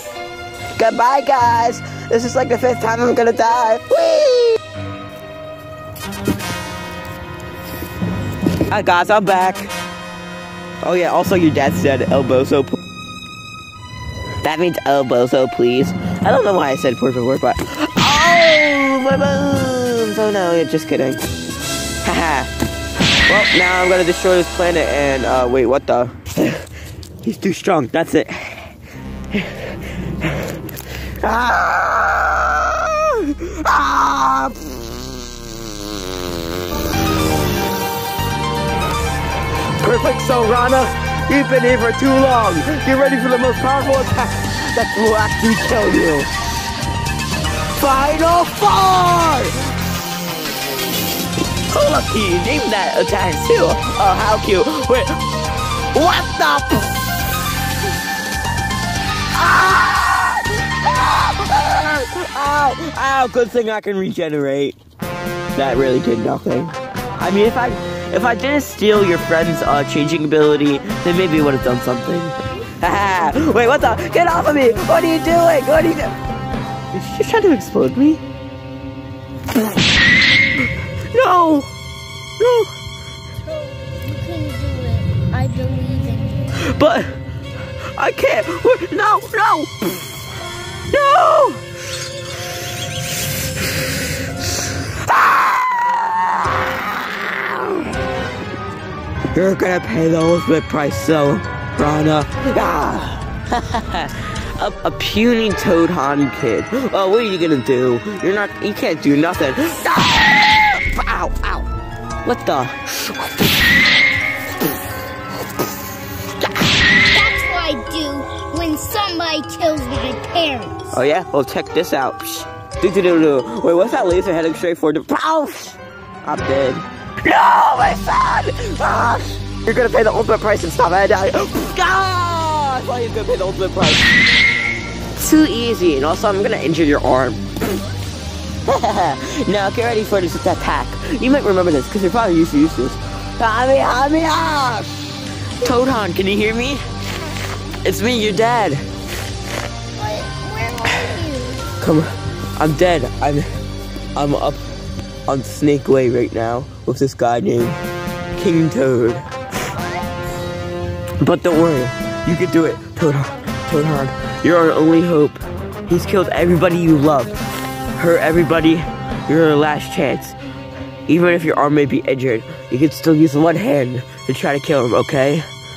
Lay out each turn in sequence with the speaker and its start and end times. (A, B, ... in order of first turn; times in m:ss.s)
0:00.8-0:04.6 A
0:08.7-0:09.7 A
0:10.8-0:12.8 A
0:14.4-0:21.2 A
0:22.0-0:22.5 A
0:23.3-0:26.6 A
0:27.2-0:28.7 A
0:29.3-0:30.5 A
0:31.2-0:34.6 A
0:39.8-0:46.3 A
0:47.7-0:49.6 A
0:51.7-0:55.2 A
0:55.9-0:57.0 A
0:59.3-1:04.8 A
1:05.6-1:16.1 A
1:16.9-1:18.2 A
1:21.1-1:21.7 A
1:22.4-1:22.7 A
1:23.4-1:26.6 B
1:26.6-1:27.1 A
1:28.0-1:29.7 A
1:30.9-1:31.6 A
1:34.8-1:38.0 A
1:39.3-1:51.7 A
1:52.2-1:53.7 A
1:57.1-2:00.9 B
2:00.9-2:14.1 A
2:15.1-2:17.8 A
2:18.6-2:24.9 A
2:25.6-2:26.8 A
2:27.8-2:28.8 A
2:30.0-2:31.6 B
2:31.8-2:33.5 A
2:34.1-2:34.6 A
2:35.3-2:37.8 A
2:38.3-2:39.3 A
2:39.8-2:40.1 B
2:41.2-2:47.3 A
2:48.0-2:50.4 A
2:51.1-2:55.4 A